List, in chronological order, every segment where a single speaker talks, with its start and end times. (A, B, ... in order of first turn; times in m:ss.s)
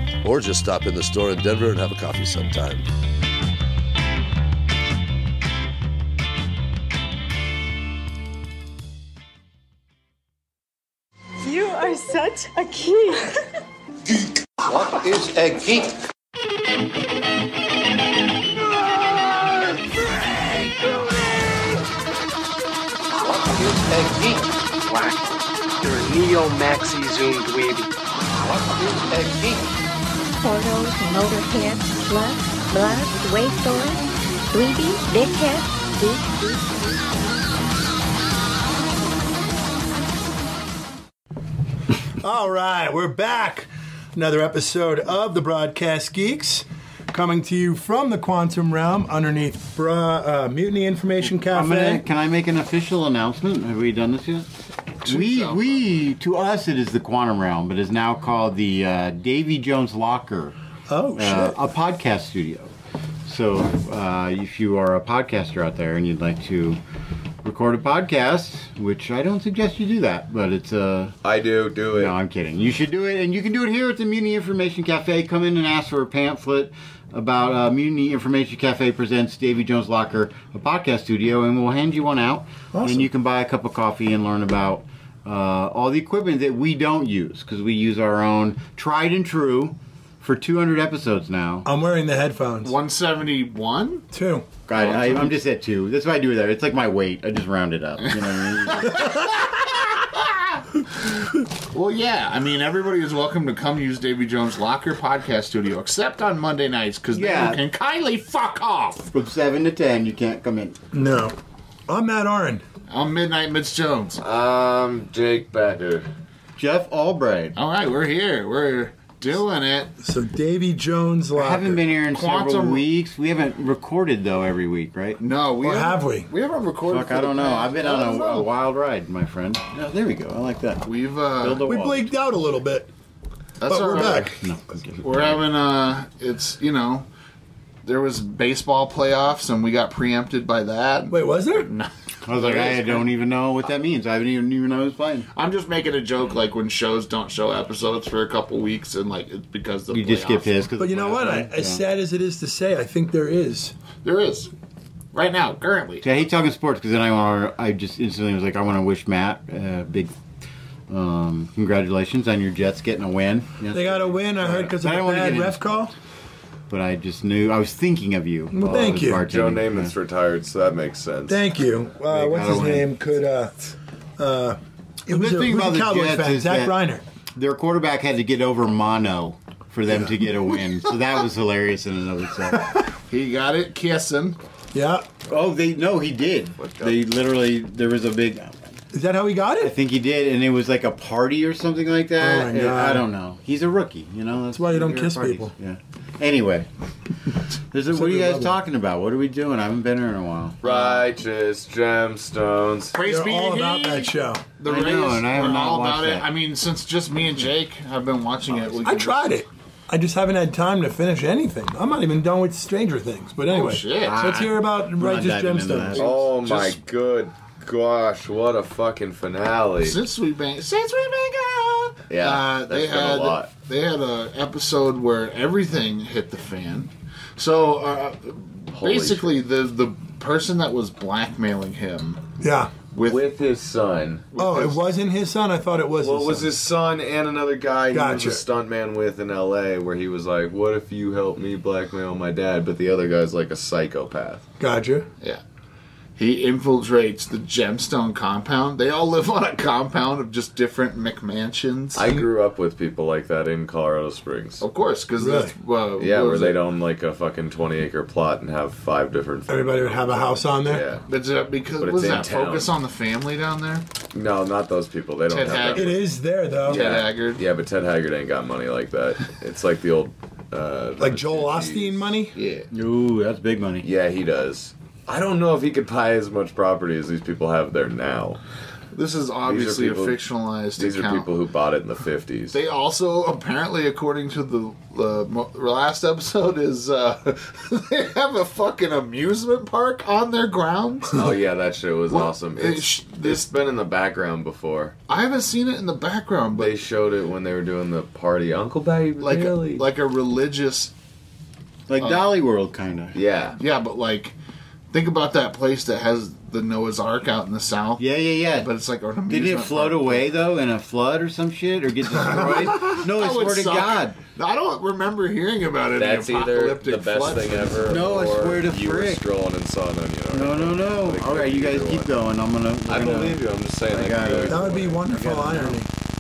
0:00.2-0:02.8 A
0:11.4-0:13.4 B
0:14.7-0:15.9 C
0:20.7-0:21.1 D
0:23.5-0:24.4 C
0:24.8-0:27.9 D
0:28.9-0:29.6 C
0:30.4-0:37.4 E
0:42.2-0:52.0 F
0:51.5-0:54.5 G
0:55.0-0:55.9 H
0:55.0-1:00.5 G
1:00.9-1:01.6 F
1:01.1-1:02.7 G
1:03.2-1:06.8 G
1:07.4-1:11.2 G
1:11.2-1:12.1 I
1:11.9-1:31.7 G
1:22.7-1:23.1 F
1:31.6-1:32.7 F
1:32.6-1:34.1 H
1:34.1-1:34.5 F
1:34.7-1:39.1 G
1:34.7-1:35.4 H
1:38.1-1:49.1 H
1:47.1-1:47.6 G
1:49.1-1:50.8 G
1:50.9-1:51.4 F
1:51.9-1:52.6 F
1:52.9-1:54.2 H
1:54.2-1:56.1 I
1:56.6-1:57.6 G
1:57.6-1:59.9 H
2:00.0-2:01.8 F
2:01.3-2:05.2 G
2:02.0-2:02.8 H
2:05.2-2:08.5 H
2:05.6-2:06.3 F
2:06.9-2:12.1 G
2:10.8-2:11.6 H
2:11.6-2:12.9 F
2:13.6-2:14.4 H
2:13.6-2:14.3 F
2:14.4-2:15.4 G
2:15.0-2:17.1 H
2:17.8-2:23.1 H
2:21.1-2:21.7 F
2:22.2-2:25.3 G
2:25.3-2:30.7 H
2:29.9-2:31.8 G
2:30.8-2:33.7 F
2:34.0-2:34.5 H
2:35.1-2:36.0 H
2:36.0-2:40.1 G
2:40.9-2:45.6 G
2:43.7-2:45.9 F
2:46.7-2:49.9 G
2:48.5-2:49.2 F
2:49.2-2:51.4 I
2:51.3-2:53.5 F
2:52.1-2:52.9 G
2:54.2-2:57.0 F
2:55.1-2:56.8 G
2:57.4-3:02.7 G
3:03.1-3:04.4 H
3:04.7-3:05.1 F
3:05.3-3:08.6 G
3:06.6-3:07.0 I
3:08.9-3:09.7 F
3:09.6-3:16.7 G
3:12.2-3:13.1 F
3:14.5-3:15.5 F
3:17.7-3:20.8 G
3:17.9-3:18.6 F
3:20.6-3:23.0 I
3:22.9-3:29.4 H
3:23.0-3:24.4 F
3:24.6-3:26.3 G
3:28.8-3:36.0 F
3:33.5-3:34.3 H
3:34.0-3:36.0 G
3:35.9-3:36.8 H
3:36.0-3:40.0 I
3:39.8-3:52.2 H
3:42.1-3:43.5 I
3:48.7-3:49.4 I
3:52.4-3:52.7 F
3:52.9-3:53.2 H
3:53.0-3:54.2 I
3:54.3-3:54.8 H
3:54.4-3:56.5 F
3:56.0-4:04.4 I
3:57.9-3:58.4 F
4:04.6-4:05.1 F
4:06.2-4:12.1 H
4:11.9-4:14.6 I
4:14.6-4:16.6 H
4:15.2-4:15.5 F
4:16.0-4:21.0 I
4:19.5-4:20.8 F
4:21.1-4:23.8 H
4:21.8-4:22.7 I
4:24.1-4:26.0 I
4:25.3-4:26.0 H
4:25.7-4:26.9 F
4:26.6-4:27.4 H
4:26.7-4:32.1 I
4:31.0-4:32.3 F
4:32.3-4:32.7 H
4:32.7-4:33.8 G
4:33.8-4:38.4 I
4:38.9-4:41.3 H
4:39.4-4:40.2 I
4:40.8-4:42.6 I
4:42.5-4:51.3 H
4:51.1-4:54.9 I
4:52.1-4:53.5 H
4:55.1-4:56.8 H
4:56.5-4:59.8 I
4:59.2-5:00.9 H
5:01.9-5:03.2 G
5:02.0-5:02.2 H
5:03.1-5:03.6 I
5:03.6-5:04.3 H
5:04.9-5:10.3 H
5:08.0-5:08.7 G
5:09.3-5:14.2 G
5:12.1-5:18.0 H
5:16.0-5:22.1 I
5:17.9-5:19.2 G
5:20.3-5:23.4 G
5:22.8-5:25.7 I
5:23.9-5:24.8 G
5:24.5-5:25.9 F